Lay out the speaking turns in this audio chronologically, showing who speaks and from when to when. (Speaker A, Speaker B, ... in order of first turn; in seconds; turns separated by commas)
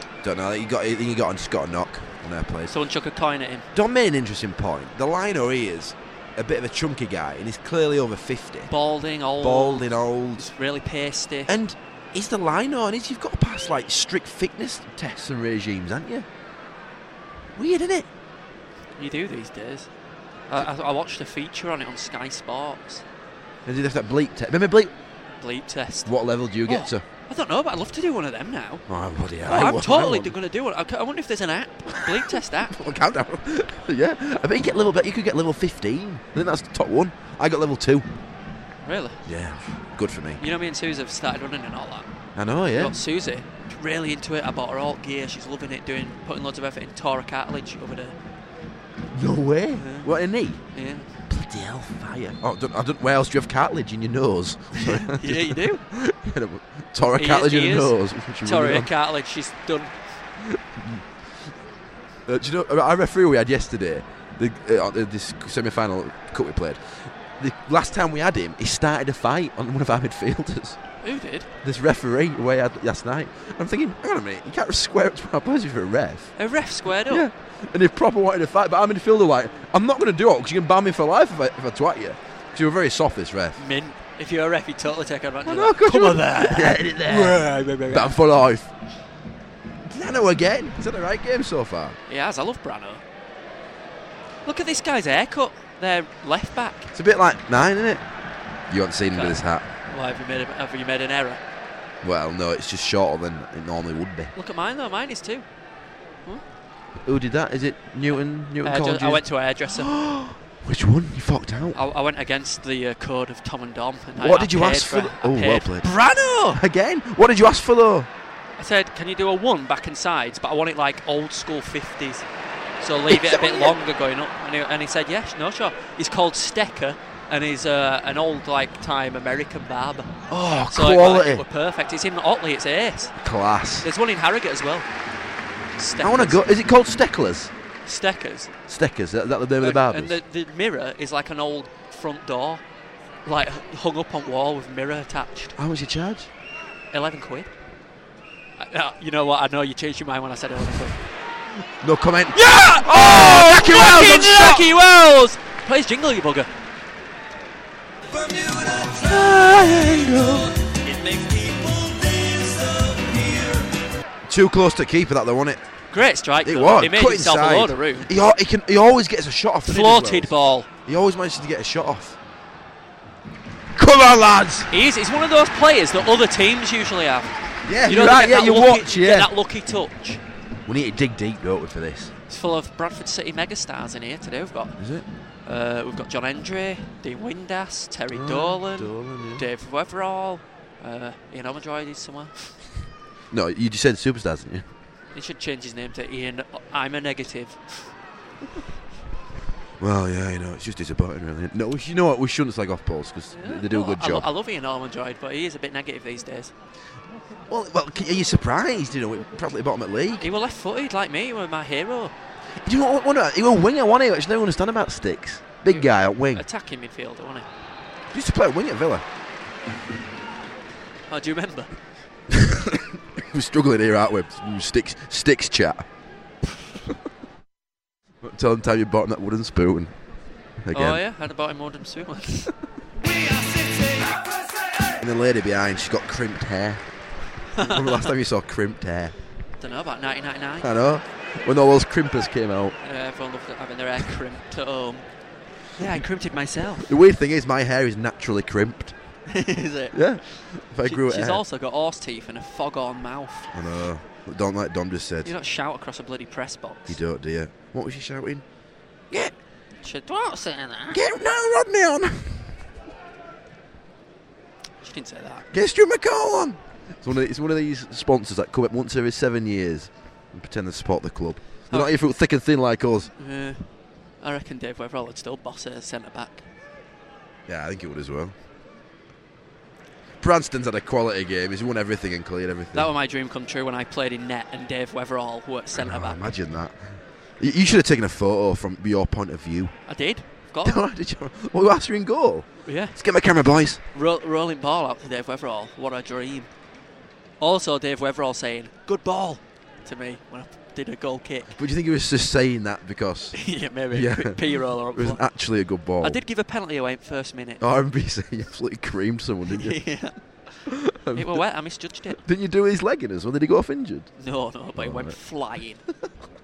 Speaker A: 0.2-2.7, Speaker B: 2.7-3.7, Speaker A: 3.7-8.7, Speaker B: 8.7-11.5, Speaker A: 9.4-10.5, Speaker A: 11.5-16.3, Speaker A: 17.6-18.1, Speaker B: 19.0-19.9, Speaker B: 20.5-23.0, Speaker A: 23.6-24.9, Speaker B: 25.4-26.1, Speaker A: 26.1-27.0, Speaker B: 26.6-28.8, Speaker A: 28.9-30.3, Speaker B: 29.4-32.7, Speaker A: 31.9-38.1, Speaker B: 38.8-39.2, Speaker A: 39.2-40.4, Speaker B: 40.4-42.1, Speaker A: 42.3-43.0, Speaker B: 42.8-48.1, Speaker A: 49.1-50.6, Speaker B: 49.8-50.1, Speaker B: 50.7-51.1, Speaker A: 51.3-58.9, Speaker B: 54.7-55.8, Speaker B: 57.2-59.9, Speaker A: 60.4-61.0, Speaker A: 62.2-70.8, Speaker B: 71.0-71.5, Speaker A: 71.6-76.3, Speaker B: 76.4-77.2, Speaker A: 77.0-83.6, Speaker B: 83.6-88.2, Speaker A: 85.5-88.7, Speaker A: 89.8-92.0, Speaker B: 92.1-93.0, Speaker B: 94.5-96.9, Speaker A: 96.9-98.0, Speaker A: 98.7-99.7, Speaker B: 99.9-101.4, Speaker A: 102.0-104.3, Speaker B: 104.3-105.5, Speaker A: 107.0-111.8, Speaker B: 108.6-109.9, Speaker B: 111.7-116.6, Speaker A: 114.2-115.9, Speaker A: 116.5-118.1, Speaker B: 118.6-122.2, Speaker B: 122.8-130.1, Speaker A: 123.1-123.8, Speaker A: 130.3-131.4, Speaker B: 130.7-133.1, Speaker A: 133.2-133.9, Speaker B: 133.8-134.9, Speaker B: 135.8-136.5, Speaker A: 136.0-137.5, Speaker B: 137.8-138.5, Speaker A: 138.7-140.2, Speaker B: 139.6-142.6, Speaker B: 143.2-145.5, Speaker A: 145.6-146.3, Speaker B: 146.9-147.5, Speaker B: 148.6-151.0, Speaker A: 151.8-154.7, Speaker B: 152.3-156.5, Speaker A: 158.3-160.6, Speaker B: 160.8-163.6, Speaker A: 164.3-165.6, Speaker B: 165.9-168.1, Speaker A: 166.4-170.3, Speaker B: 169.6-170.7, Speaker A: 170.8-172.2, Speaker A: 173.7-174.7, Speaker B: 174.7-177.3, Speaker A: 177.7-179.3, Speaker B: 177.8-180.2, Speaker A: 180.7-182.1, Speaker B: 182.3-184.8, Speaker A: 184.8-185.1, Speaker B: 185.4-192.6, Speaker A: 188.1-189.4, Speaker A: 193.3-194.7, Speaker B: 195.1-197.9, Speaker A: 199.8-204.3, Speaker B: 203.3-206.5, Speaker A: 207.5-210.3, Speaker B: 210.2-212.1, Speaker A: 212.6-216.4, Speaker B: 215.7-217.5, Speaker A: 218.1-219.0, Speaker B: 221.1-221.7, Speaker A: 222.3-225.8, Speaker A: 228.2-229.9, Speaker A: 230.6-231.0, Speaker B: 230.7-232.5, Speaker A: 235.0-236.8, Speaker B: 237.5-238.1, Speaker A: 237.6-239.1, Speaker B: 239.6-240.7, Speaker A: 240.6-242.8, Speaker B: 242.8-245.1, Speaker B: 245.8-246.9, Speaker A: 246.8-248.9, Speaker B: 249.3-253.5, Speaker A: 249.9-251.4, Speaker A: 253.5-255.3, Speaker B: 255.2-257.0, Speaker A: 256.9-258.4, Speaker B: 259.8-261.0, Speaker A: 260.9-262.5, Speaker B: 264.8-265.5, Speaker A: 265.5-273.1, Speaker B: 273.2-273.7, Speaker B: 274.2-276.5, Speaker A: 277.5-278.3, Speaker A: 280.2-282.9, Speaker B: 282.7-286.2, Speaker A: 285.7-289.7, Speaker B: 289.9-290.8, Speaker A: 290.6-293.8, Speaker B: 292.6-293.0, Speaker B: 293.9-296.5, Speaker B: 297.4-301.5, Speaker A: 301.6-306.2, Speaker B: 303.3-305.2, Speaker B: 306.0-307.6, Speaker A: 307.6-309.8, Speaker B: 309.5-310.2, Speaker A: 310.7-311.4, Speaker B: 311.1-312.2, Speaker A: 312.1-314.1, Speaker B: 314.2-315.8, Speaker A: 314.7-315.2